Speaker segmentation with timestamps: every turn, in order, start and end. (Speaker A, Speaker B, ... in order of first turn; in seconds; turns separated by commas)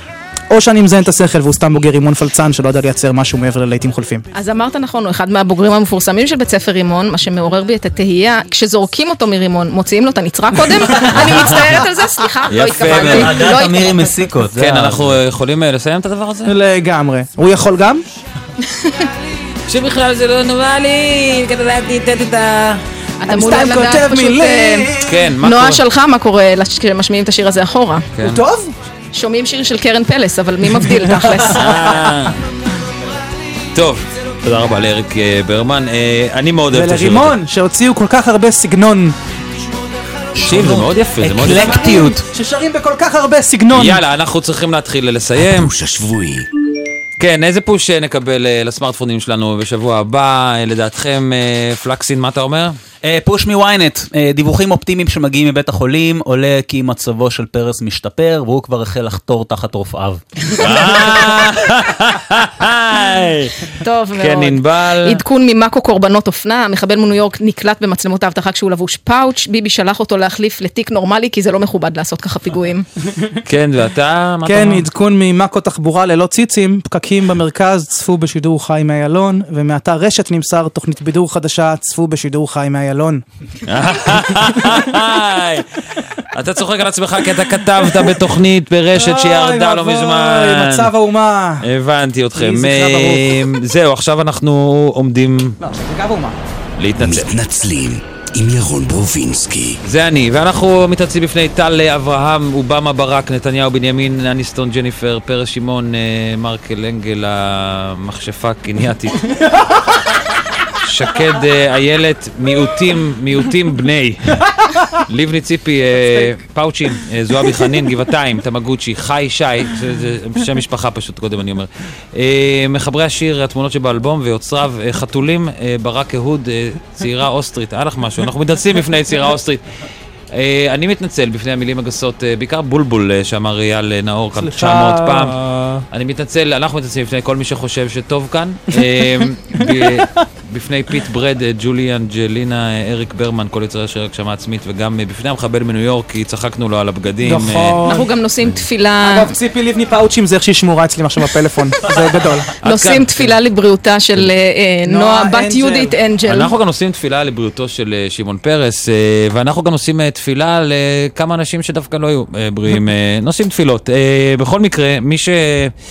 Speaker A: 0.5-4.2, Speaker B: 4.3-14.1, Speaker C: 12.5-13.5, Speaker D: 12.8-15.1, Speaker C: 14.4-16.5, Speaker A: 16.4-18.0, Speaker B: 18.6-19.1, Speaker C: 19.6-22.8, Speaker B: 23.2-28.1, Speaker A: 23.3-25.2, Speaker C: 25.0-25.8, Speaker C: 28.1-28.4, Speaker A: 28.2-28.7, Speaker B: 29.1-31.6, Speaker A: 31.3-32.1, Speaker C: 31.4-32.4, Speaker C: 33.7-37.4, Speaker A: 36.7-39.1, Speaker D: 40.3-42.2, Speaker C: 40.4-42.1, Speaker A: 41.5-44.0, Speaker C: 43.7-45.7, Speaker E: 45.4-46.5, Speaker C: 47.2-52.7, Speaker D: 53.0-60.2, Speaker C: 60.6-65.2, Speaker B: 63.8-72.8, Speaker C: 73.5-74.9, Speaker A: 74.4-83.2, Speaker C: 83.6-90.9, Speaker A: 88.9-91.7, Speaker C: 91.6-95.6, Speaker A: 92.3-93.4, Speaker A: 95.6-96.3, Speaker C: 96.8-97.3, Speaker E: 97.0-99.8, Speaker C: 99.8-109.3, Speaker C: 110.7-129.6, Speaker C: 130.3-135.4, Speaker A: 134.4-135.8, Speaker C: 135.9-147.9, Speaker A: 139.6-140.1, Speaker A: 147.2-148.1, Speaker B: 147.8-149.3, Speaker A: 149.0-152.5, Speaker C: 152.6-153.3, Speaker B: 152.6-156.5, Speaker A: 154.8-155.9, Speaker C: 156.2-165.7